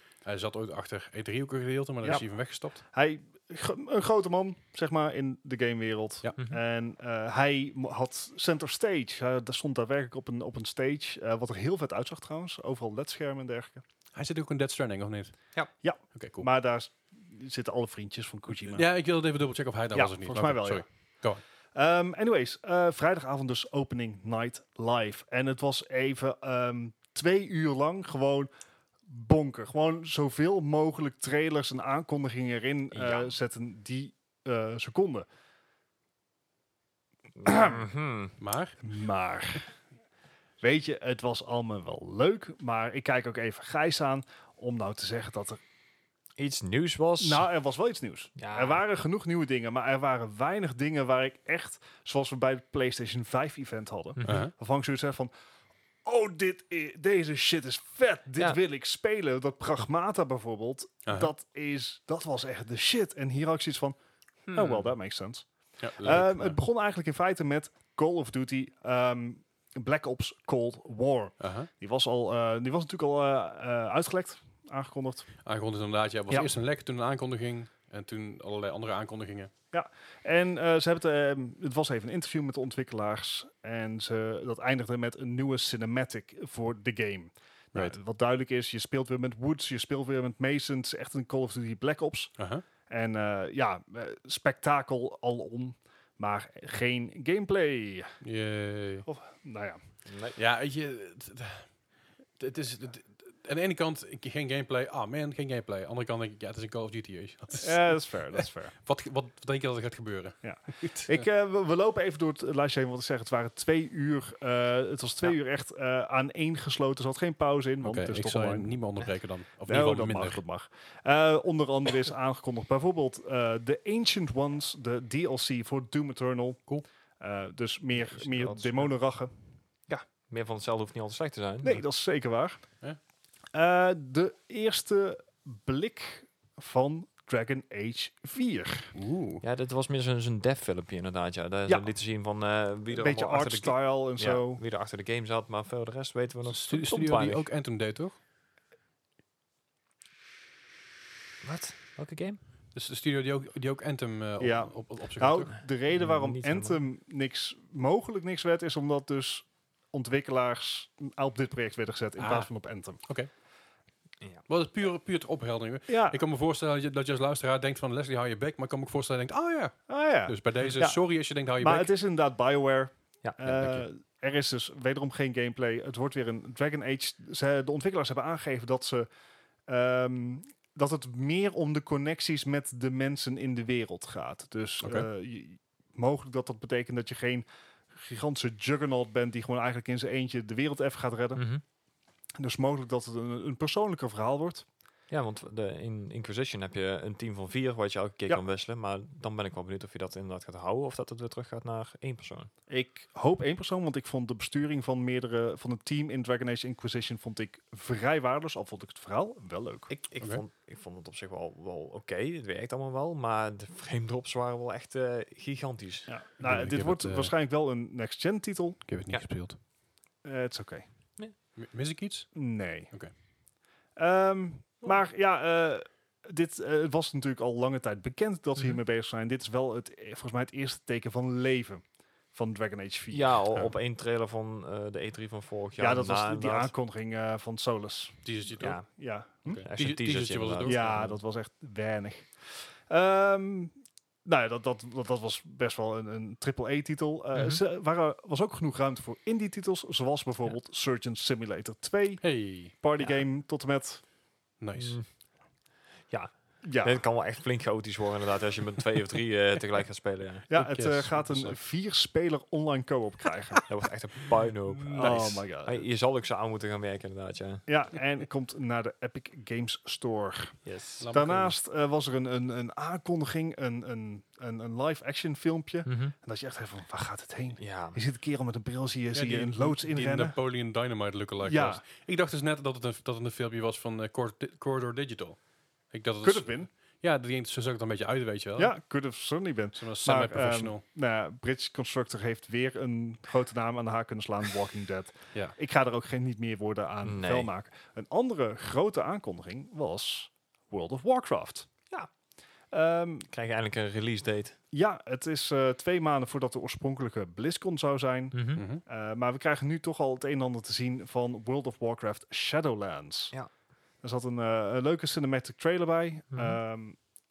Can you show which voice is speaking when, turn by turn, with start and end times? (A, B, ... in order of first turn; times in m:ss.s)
0:00.2-0:02.8 A
0:02.8-0:13.8 B
0:14.1-0:15.3 A
0:15.8-0:18.8 B
0:16.1-0:16.4 A
0:18.6-0:21.4 A
0:19.9-0:20.8 B
0:21.7-0:28.5 B
0:29.1-0:35.2 B
0:32.9-0:33.3 C
0:37.4-0:38.4 C
0:37.4-0:37.8 B
0:38.4-0:38.8 A
0:38.8-0:39.7 B
0:40.6-0:45.6 B
0:46.4-0:47.4 C
0:47.2-0:55.3 B
0:48.4-0:48.8 C
0:54.2-0:54.5 C
0:54.2-0:54.5 A
0:56.0-1:04.0 B
1:01.0-1:01.3 A
1:04.5-1:04.9 C
1:04.5-1:05.5 B
1:05.8-1:06.6 A
1:06.0-1:15.3 B
1:11.4-1:11.7 A
1:15.4-1:19.5 A
1:19.7-1:32.3 B
1:32.4-1:32.6 A
1:32.9-1:38.2 B
1:38.2-1:39.1 A
1:39.0-1:39.8 B
1:40.0-1:40.4 C
1:40.4-1:41.7 A
1:42.4-1:51.2 A
1:47.6-1:48.7 B
1:50.4-1:58.8 B
1:57.8-2:00.4 A
1:59.7-2:06.6 B
2:07.2-2:09.3 B
2:08.0-2:08.9 C
2:10.3-2:11.8 C
2:11.6-2:12.6 B
2:13.5-2:18.9 B
2:18.9-2:19.4 A
2:19.4-2:27.4 C
2:22.9-2:24.6 B
2:26.5-2:28.2 A
2:31.4-2:32.4 C
2:32.7-2:35.6 A
2:34.4-2:43.0 B
2:35.9-2:36.8 C
2:42.2-2:42.5 A
2:43.0-2:43.3 A
2:44.5-2:51.9 A
2:45.9-2:46.2 B
2:49.9-2:59.1 B
2:53.2-2:53.5 C
2:53.5-2:53.8 A
2:59.7-3:11.4 B
3:04.8-3:05.1 A
3:11.4-3:11.6 C
3:12.4-3:14.6 B
3:15.1-3:22.5 C
3:22.7-3:29.9 B
3:29.9-3:36.1 C
3:36.1-3:38.8 B
3:36.4-3:37.3 A
3:38.8-3:39.6 A
3:40.2-3:40.8 B
3:41.6-3:43.1 A
3:42.3-3:42.9 B
3:44.0-3:51.8 B
3:52.3-3:53.4 B
3:53.1-3:56.7 C
3:55.8-3:59.6 B
3:58.2-3:58.8 A
3:58.6-3:58.8 C
3:59.4-4:01.0 A
3:59.6-4:01.2 C
4:00.6-4:14.0 B
4:07.3-4:07.6 C
4:12.2-4:12.7 A
4:14.6-4:15.0 A
4:14.8-4:15.1 C
4:16.1-4:20.5 C
4:16.6-4:17.0 B
4:20.5-4:23.7 B
4:20.5-4:21.6 A
4:23.7-4:27.7 C
4:24.9-4:25.8 B
4:24.9-4:25.2 A
4:27.7-4:30.6 B
4:30.6-4:31.1 C
4:31.0-4:31.5 A
4:31.1-4:40.4 B
4:35.8-4:36.1 C
4:37.6-4:38.0 C
4:39.1-4:45.4 A
4:41.4-4:41.8 B
4:45.9-4:48.7 A
4:46.2-4:46.7 B
4:48.6-5:01.7 B
4:49.8-4:50.8 A
4:57.0-4:57.5 C
5:02.7-5:03.3 B
5:03.3-5:04.6 C
5:04.7-5:13.3 B
5:08.3-5:08.6 C
5:08.6-5:08.8 A
5:14.0-5:17.0 B
5:16.3-5:16.6 C